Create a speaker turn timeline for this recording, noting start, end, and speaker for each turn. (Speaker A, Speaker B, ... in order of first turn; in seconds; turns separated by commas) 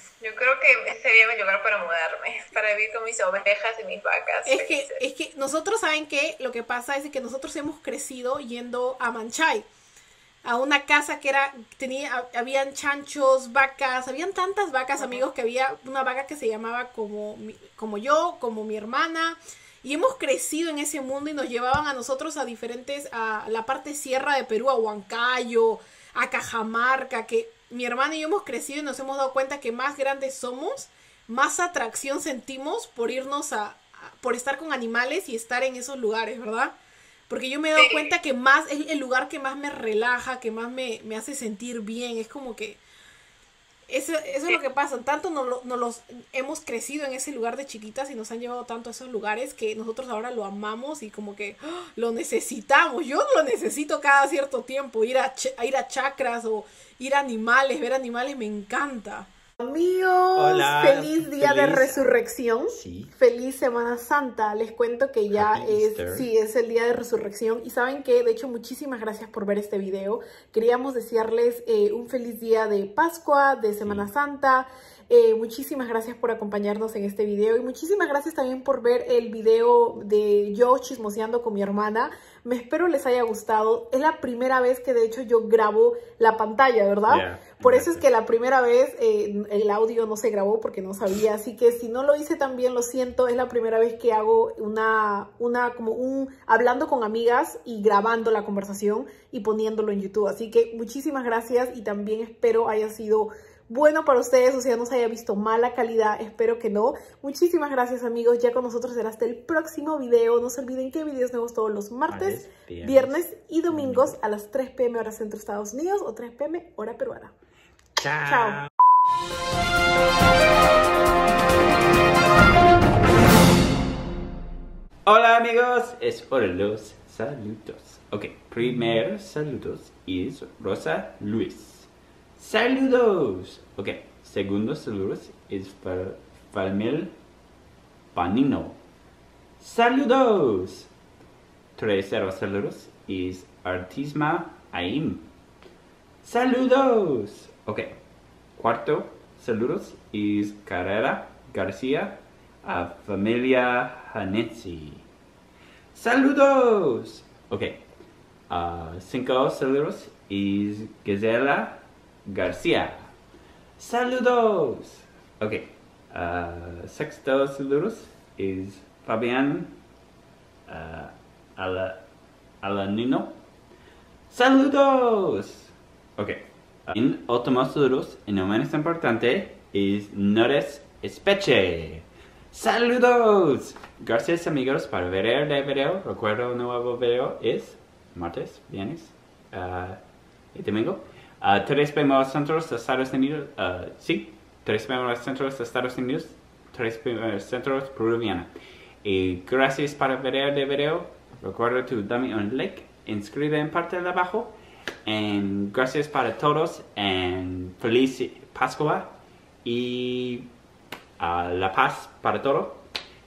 Speaker A: 0.2-5.0, Speaker B: 4.5-9.7, Speaker B: 10.4-36.8, Speaker A: 15.0-15.2, Speaker B: 37.3-42.8, Speaker A: 37.8-38.1, Speaker B: 43.9-117.3, Speaker C: 60.4-62.0, Speaker C: 62.7-63.1, Speaker C: 65.3-66.3, Speaker C: 73.8-74.1, Speaker C: 87.1-88.1, Speaker C: 112.1-114.2, Speaker C: 118.0-118.7, Speaker B: 118.2-118.6, Speaker C: 125.0-137.2, Speaker C: 138.1-138.8, Speaker C: 139.6-140.9, Speaker C: 141.8-145.3, Speaker C: 146.2-148.0, Speaker C: 148.6-155.1, Speaker C: 155.9-157.8, Speaker C: 158.5-163.1, Speaker C: 163.8-169.8, Speaker C: 170.7-172.0, Speaker C: 172.6-173.4, Speaker C: 174.3-190.0, Speaker C: 190.5-198.5, Speaker C: 199.0-210.5, Speaker C: 211.2-212.8